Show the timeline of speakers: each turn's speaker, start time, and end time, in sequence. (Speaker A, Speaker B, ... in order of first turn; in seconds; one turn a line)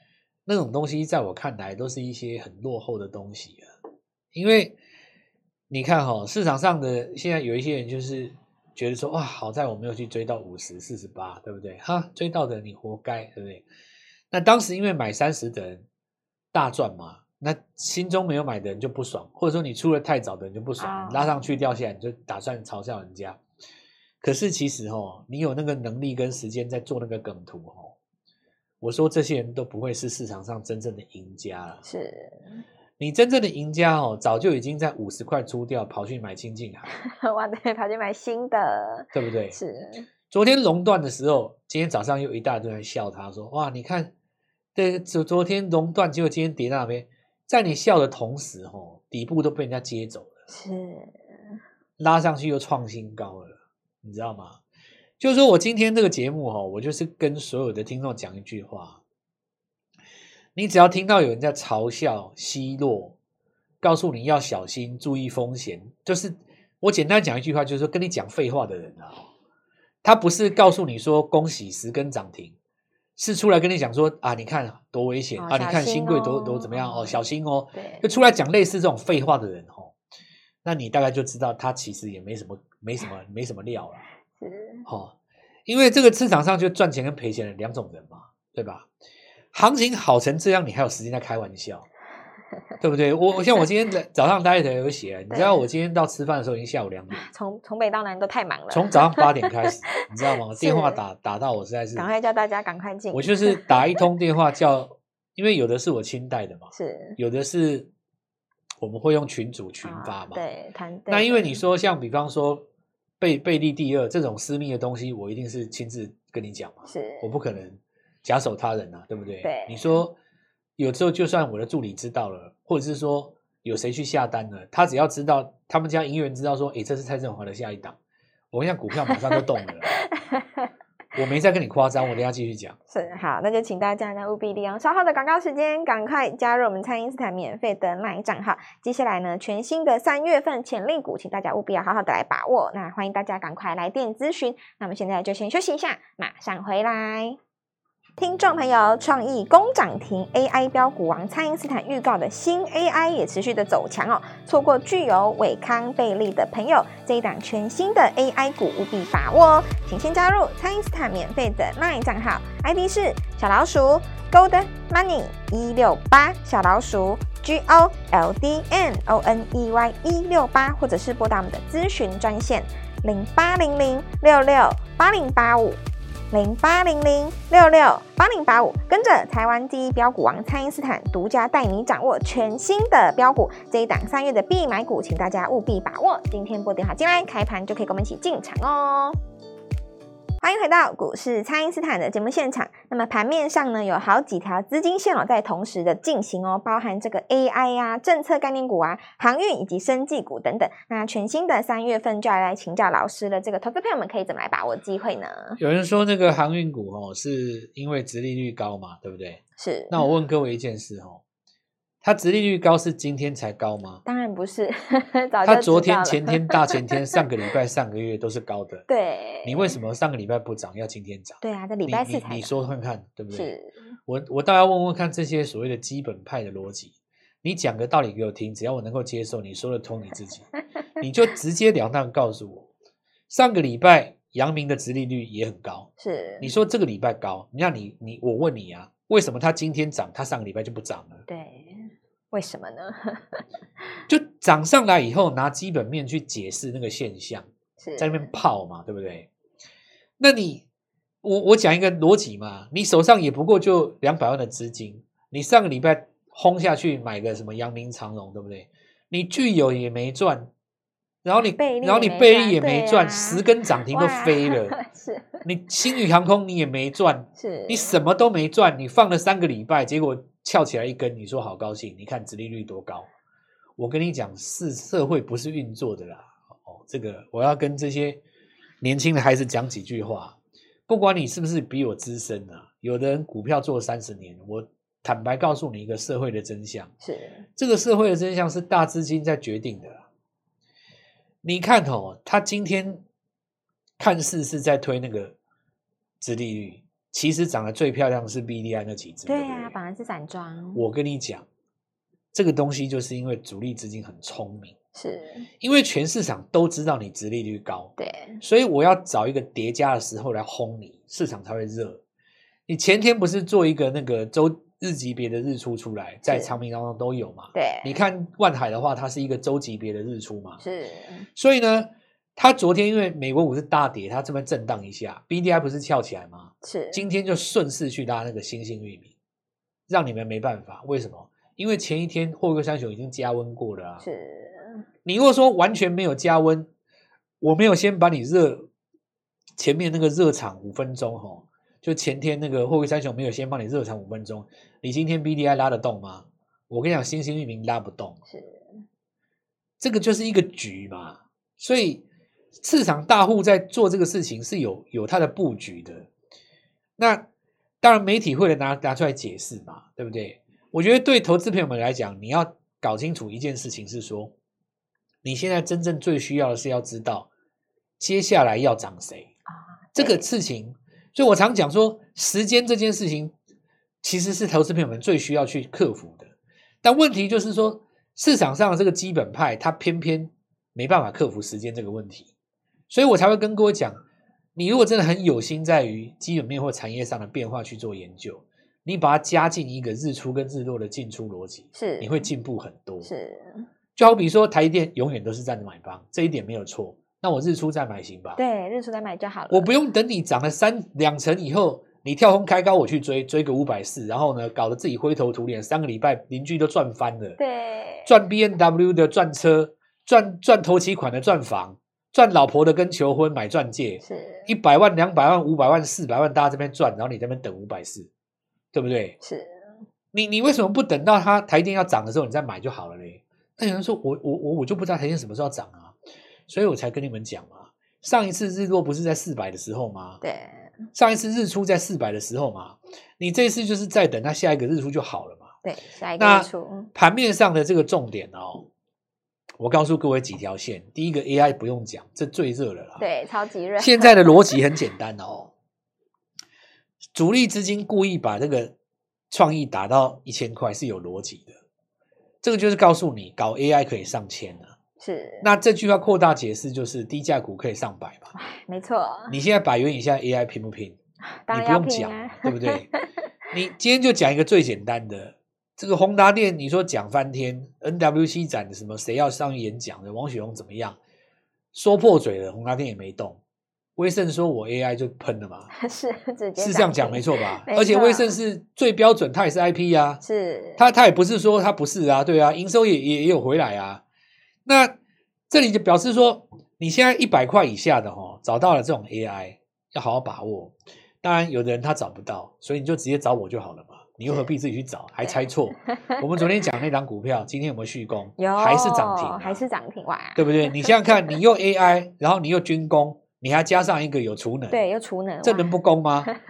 Speaker A: 0.5-3.6
Speaker A: 4.3-4.8
Speaker A: 5.7-13.7
Speaker A: 14.3-15.8
Speaker A: 16.5-23.4
Speaker B: 20.8-21.6
Speaker A: 24.2-27.9
Speaker A: 28.8-31.8
Speaker B: 31.8-32.6
Speaker A: 33.0-36.9
Speaker B: 36.9-40.1
Speaker A: 39.1-39.6
Speaker A: 40.3-44.1
Speaker A: 44.8-50.3
Speaker B: 50.5-51.1
Speaker A: 52.0-54.6
Speaker A: 55.2-59.0
Speaker A: 60.6-63.1
Speaker A: 63.8-69.3
Speaker A: 70.0-72.5
Speaker A: 73.2-79.9
Speaker B: 75.4-77.2
Speaker B: 77.7-78.1
Speaker A: 80.6-84.0
Speaker B: 84.4-84.9
Speaker A: 84.9-85.1
Speaker A: 85.7-88.9
Speaker A: 89.5-91.9
Speaker A: 92.8-97.2
Speaker B: 95.3-95.6
Speaker B: 97.1-99.3
Speaker A: 98.7-102.1
Speaker B: 100.6-101.0
Speaker B: 102.0-103.9
Speaker A: 103.1-107.9
Speaker B: 106.7-107.2
Speaker A: 108.8-110.4
Speaker B: 109.8-111.6
Speaker A: 111.1-112.7
Speaker A: 113.2-120.2
Speaker B: 116.9-117.3
Speaker B: 119.4-120.0
Speaker A: 120.8-128.0
Speaker A: 128.5-130.0
Speaker B: 130.2-130.7
Speaker A: 131.2-132.8
Speaker B: 132.9-147.4
Speaker B: 148.2-189.2
Speaker B: 190.4-205.6
Speaker A: 205.6-209.4
Speaker B: 209.6-210.0
Speaker A: 209.9-211.2
Speaker A: 212.0-214.0
Speaker B: 214.1-216.7
Speaker A: 215.4-218.9
Speaker B: 218.9-219.8
Speaker A: 219.4-223.6
Speaker B: 221.4-222.6
Speaker B: 223.3-223.7
Speaker A: 224.1-230.5
Speaker A: 231.0-232.7
Speaker A: 233.3-235.9
Speaker B: 236.0-236.5
Speaker A: 236.4-241.2
Speaker B: 241.3-243.4
Speaker A: 244.1-249.3
Speaker B: 247.8-248.3
Speaker A: 250.2-250.6
Speaker A: 251.2-260.5
Speaker A: 261.2-264.8
Speaker B: 261.4-265.4
Speaker A: 265.4-273.1
Speaker B: 267.4-268.0
Speaker A: 273.8-278.2
Speaker A: 278.8-280.4
Speaker A: 280.9-286.9
Speaker B: 287.0-287.5
Speaker A: 287.6-290.0
Speaker A: 291.4-293.0
Speaker A: 294.0-295.3
Speaker A: 296.2-299.8
Speaker B: 299.3-300.9
Speaker A: 300.8-301.4
Speaker A: 302.3-304.7
Speaker B: 304.9-305.5
Speaker A: 305.6-312.0
Speaker B: 308.0-308.4
Speaker A: 312.7-320.6
Speaker B: 316.3-316.6
Speaker B: 317.5-318.0
Speaker B: 320.6-321.3
Speaker A: 321.4-329.1
Speaker B: 326.6-327.1
Speaker A: 329.9-334.0
Speaker B: 334.0-334.9
Speaker A: 335.1-336.7
Speaker A: 337.4-338.7
Speaker A: 339.6-348.2
Speaker B: 348.3-348.7
Speaker A: 349.8-352.0
Speaker A: 352.6-356.1
Speaker A: 357.0-357.3
Speaker A: 357.8-364.3
Speaker A: 365.2-367.3
Speaker A: 368.0-369.3
Speaker B: 369.9-370.3
Speaker A: 369.9-373.3
Speaker A: 374.0-376.3
Speaker A: 376.8-382.3
Speaker A: 382.9-384.0
Speaker A: 384.6-393.1
Speaker B: 391.8-392.3
Speaker B: 393.0-393.7
Speaker A: 394.0-398.4
Speaker B: 398.4-399.7
Speaker A: 399.5-407.4
Speaker B: 407.4-408.1
Speaker A: 408.1-418.1
Speaker B: 414.0-414.5
Speaker A: 418.7-419.2
Speaker B: 419.2-419.8
Speaker A: 420.1-425.9
Speaker A: 426.5-430.2
Speaker B: 430.2-430.7
Speaker A: 430.9-435.5
Speaker B: 435.6-436.9
Speaker A: 436.2-438.7
Speaker A: 439.6-443.0
Speaker B: 443.0-444.6
Speaker A: 443.8-445.5
Speaker A: 447.1-448.7
Speaker A: 449.3-451.5
Speaker A: 452.4-454.7
Speaker B: 455.0-455.5
Speaker A: 455.4-458.3
Speaker B: 458.3-459.4
Speaker A: 459.3-461.0
Speaker B: 461.4-463.0
Speaker A: 461.5-462.9
Speaker A: 463.5-471.0
Speaker A: 471.7-473.4
Speaker A: 474.0-475.7
Speaker B: 475.7-478.4
Speaker A: 476.6-480.2
Speaker B: 480.2-480.8
Speaker A: 480.8-484.0
Speaker A: 484.7-484.9
Speaker A: 485.5-499.6
Speaker B: 498.4-501.4
Speaker A: 500.4-504.8
Speaker B: 504.7-505.7
Speaker A: 505.4-506.3